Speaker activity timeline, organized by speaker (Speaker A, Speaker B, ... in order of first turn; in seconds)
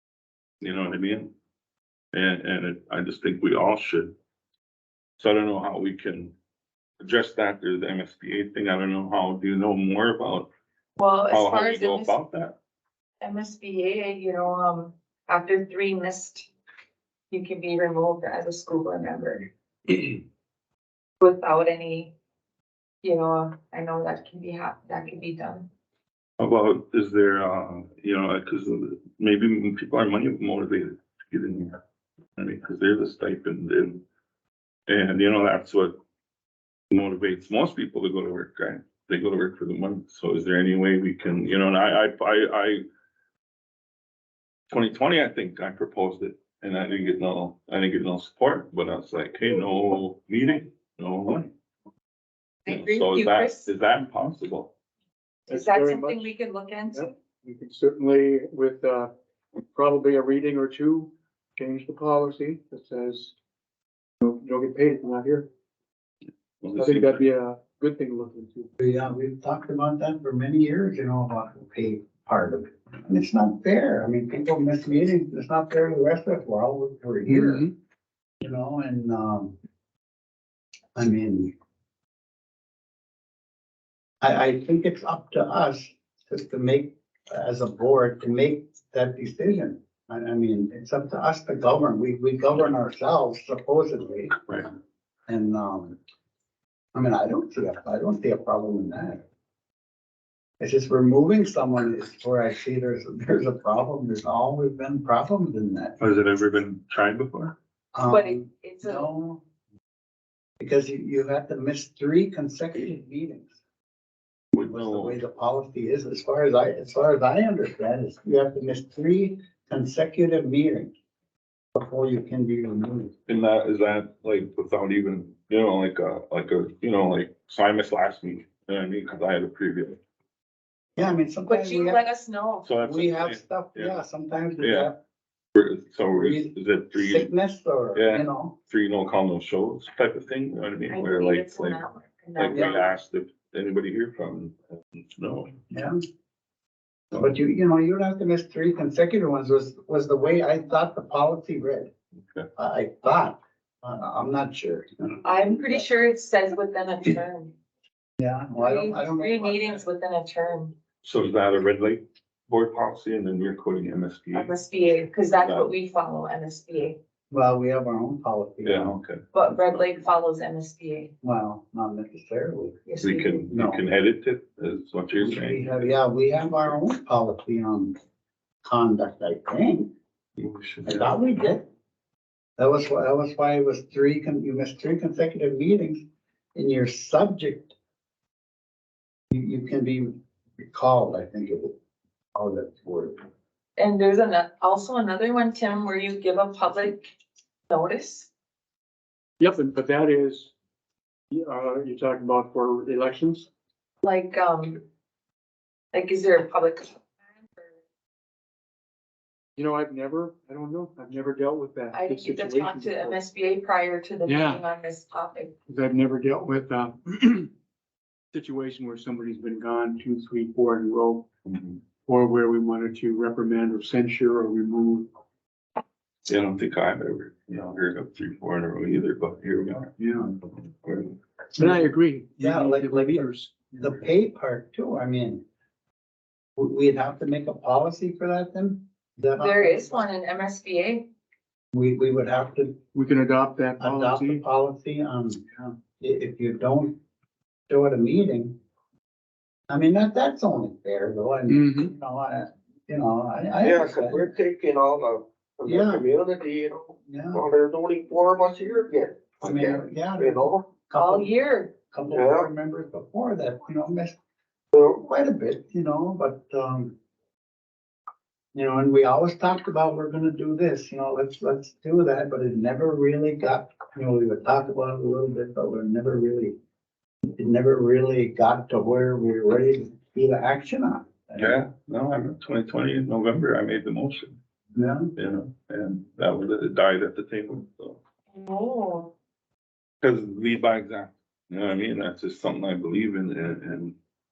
Speaker A: 0.6-1.3, 2.1-4.1, 5.2-6.3, 7.0-10.5, 11.3-12.6, 26.4-31.8, 32.4-34.0, 34.9-35.9, 36.9-42.8, 44.7-51.5, 52.7-54.7, 66.6-67.2, 106.0-107.5, 114.5-115.2, 123.3-130.0, 132.6-134.0, 134.6-134.9, 135.5-137.3, 137.9-141.8, 142.4-145.5, 161.0-164.5, 165.4-165.7, 168.6-169.8, 173.0-175.9, 180.4-181.1, 221.4-221.8, 226.3-231.2, 281.4-284.4, 285.1-288.0, 290.0-293.9
Speaker B: 11.0-12.1, 13.2-16.5, 17.3-20.1, 21.2-22.1, 23.0-25.7, 52.6-53.7, 55.5-57.1, 108.0-109.1, 131.5-132.7, 140.9-142.9, 155.2-157.5, 158.6-160.7, 164.3-167.0, 169.3-171.1, 172.8-173.5, 193.8-197.1, 197.7-198.3, 204.0-204.8, 205.9-207.7, 211.9-215.5, 239.4-241.1, 260.9-261.7, 288.3-289.1
Speaker C: 55.5-56.3, 56.9-59.1, 59.7-63.3, 64.2-65.5, 66.7-68.7, 77.3-77.7, 199.4-200.5, 201.3-203.5, 209.6-213.2, 214.2-214.6, 215.7-217.5, 218.3-221.2, 222.0-225.1, 231.6-233.9, 242.9-244.4, 251.5-251.9
Speaker D: 68.8-77.7, 78.4-79.5, 80.9-81.5, 84.2-94.8, 95.3-96.0, 96.9-99.2, 100.6-106.0, 107.9-109.4, 110.6-113.6, 114.7-120.9, 121.7-123.1, 131.0-132.0, 132.8-135.0, 136.1-138.5, 142.5-142.8, 145.7-145.9, 147.1-151.9, 152.6-155.8, 158.2-159.8, 167.3-168.9, 171.2-172.8, 173.5-173.8, 175.2-177.9, 178.6-179.9, 180.8-181.7, 182.6-186.0, 186.5-187.7, 189.3-191.7, 192.3-193.2, 230.0-230.3, 231.6-235.4, 236.6-240.0, 241.7-242.8, 243.8-246.9, 247.7-248.6, 249.7-254.3, 255.6-256.1, 257.1-257.4, 259.4-261.3, 261.9-264.1, 264.9-266.9, 268.5-276.5, 277.3-281.6, 284.7-285.1
Speaker E: 253.6-260.7, 262.1-262.5, 264.7-265.0